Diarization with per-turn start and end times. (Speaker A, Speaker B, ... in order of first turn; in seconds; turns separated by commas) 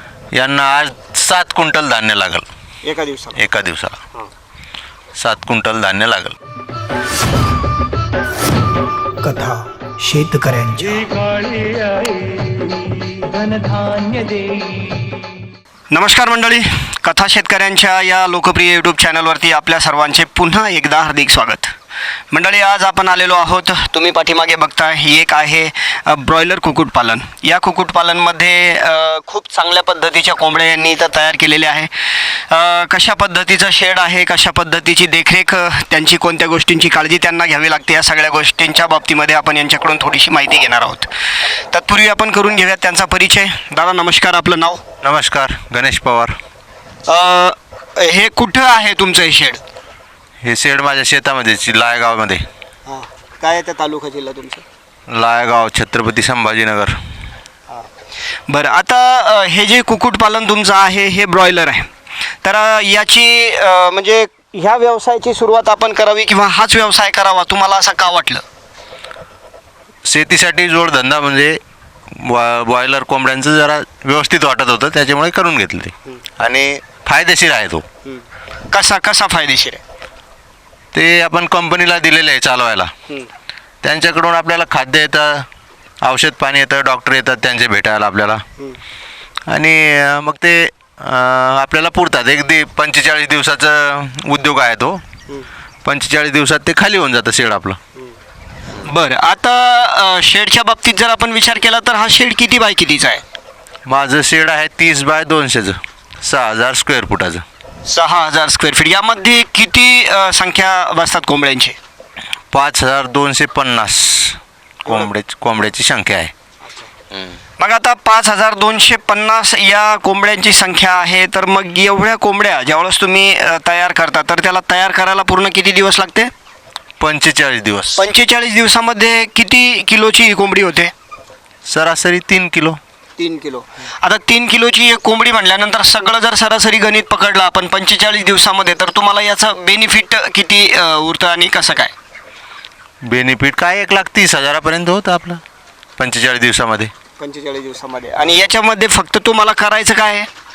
Speaker A: 0.3-2.5, Speaker B: 2.8-3.4, Speaker A: 3.3-4.0, Speaker A: 5.2-6.3, Speaker C: 9.2-11.2, Speaker B: 11.1-11.9, Speaker B: 13.2-13.5, Speaker B: 15.9-21.7, Speaker B: 22.3-44.8, Speaker A: 45.0-46.4, Speaker B: 47.0-49.6, Speaker A: 50.4-52.4, Speaker B: 52.9-54.6, Speaker A: 55.1-57.0, Speaker B: 58.5-61.9, Speaker B: 62.4-68.4, Speaker A: 70.0-77.8, Speaker B: 78.0-79.8, Speaker A: 80.9-82.9, Speaker A: 83.8-85.5, Speaker A: 86.0-88.4, Speaker A: 89.5-95.0, Speaker A: 95.8-97.8, Speaker B: 98.8-103.2, Speaker A: 103.8-107.4, Speaker B: 107.8-111.8, Speaker A: 112.5-116.3, Speaker B: 117.6-126.3, Speaker A: 127.0-128.1, Speaker B: 128.0-130.9, Speaker A: 131.7-132.8, Speaker B: 133.2-141.9, Speaker A: 143.0-145.4, Speaker A: 146.0-146.9, Speaker B: 147.2-150.3